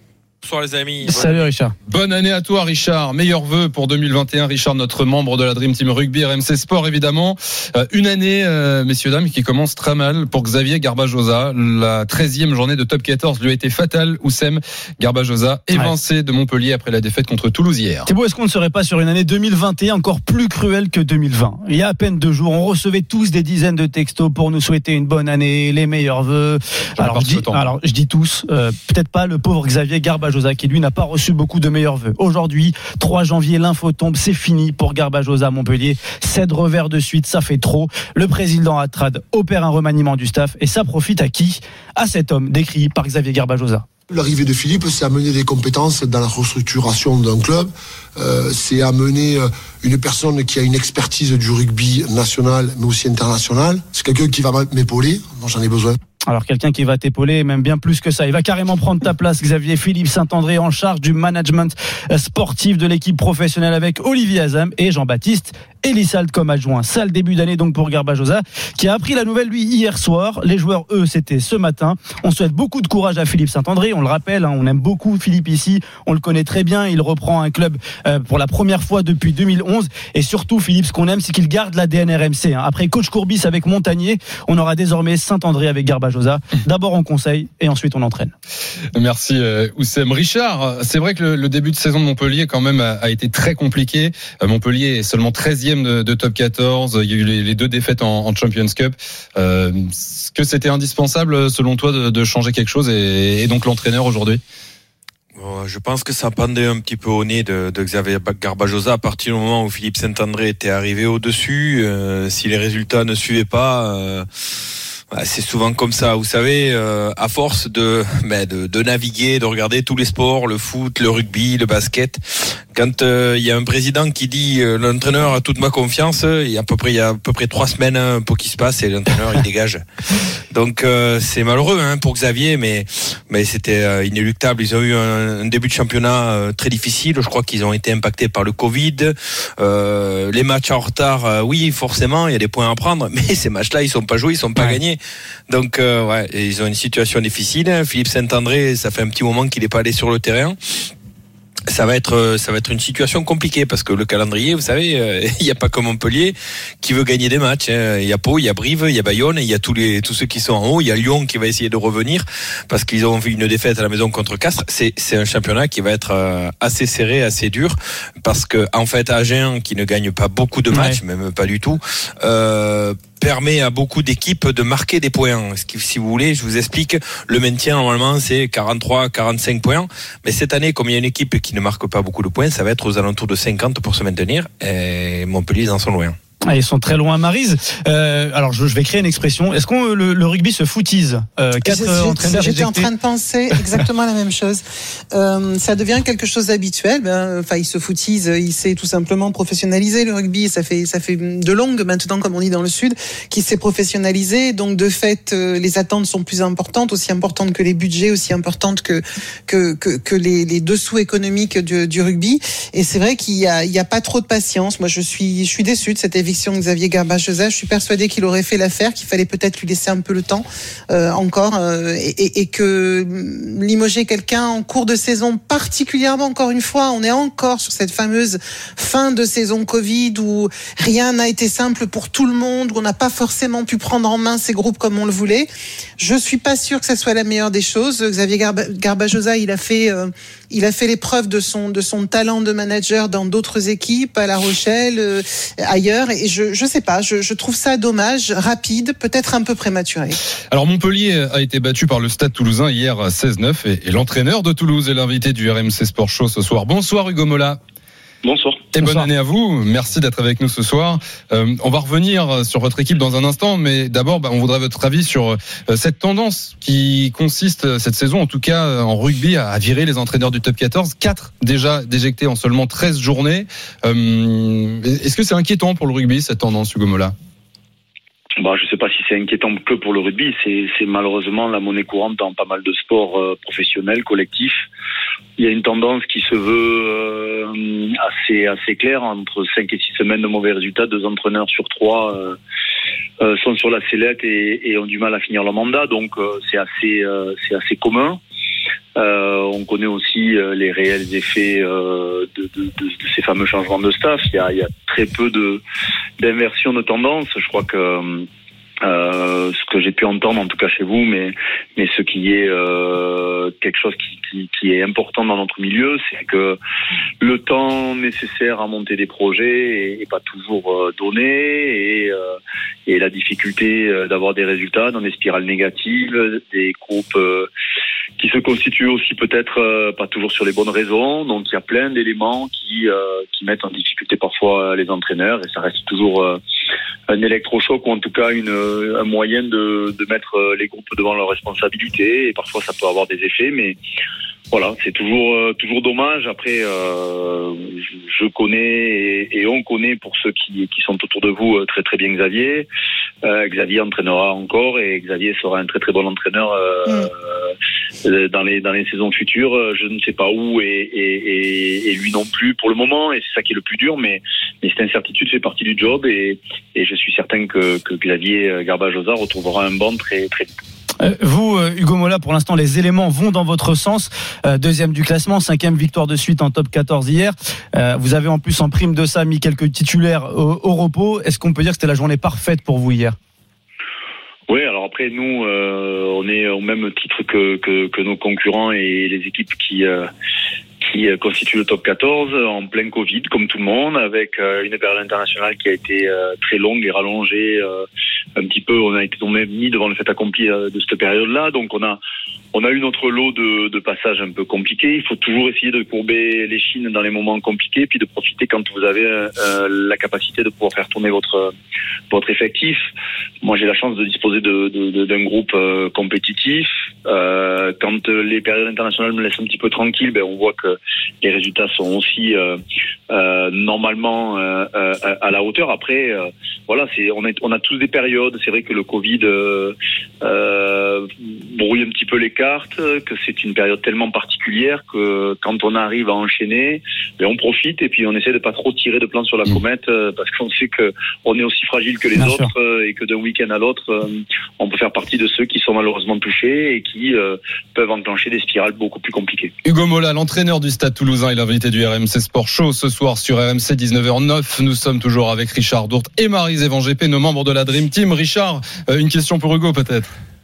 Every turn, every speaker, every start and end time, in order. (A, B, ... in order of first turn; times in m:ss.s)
0:00.4-0:01.5 A
0:01.0-0:01.7 B
0:01.9-0:18.1 C
0:18.1-0:43.9 B
0:27.0-0:27.7 C
0:44.1-0:56.0 D
0:56.3-1:28.3 B
1:29.0-1:44.4 C
1:45.4-1:54.3 A
1:55.1-2:09.8 A
2:10.5-2:30.6 A
2:31.7-3:06.2 A
2:50.7-2:51.0 B
3:06.5-3:12.9 B
3:11.6-3:55.5 E
3:56.0-4:10.2 E
4:10.5-4:17.6 C
4:18.2-4:18.6 F
4:18.7-4:37.2 C
4:38.4-4:44.6 F
4:45.4-4:52.4 F
4:53.2-4:58.2 F
4:59.0-5:05.6 F
5:06.2-5:08.3 F
5:08.8-5:16.6 F
5:17.2-5:27.5 F
5:28.2-5:36.4 F
5:37.1-5:43.8 F
5:44.5-5:52.7 F
5:53.2-5:57.1 F
5:58.0-6:10.5 F
6:11.0-6:23.2 B
6:24.5-6:30.1 F
6:30.8-6:37.9 F
6:38.4-6:42.0 F
6:42.5-6:51.5 F
6:52.1-6:52.9 F
6:53.4-7:29.5 F
7:22.2-7:22.5 B
7:29.6-7:40.1 C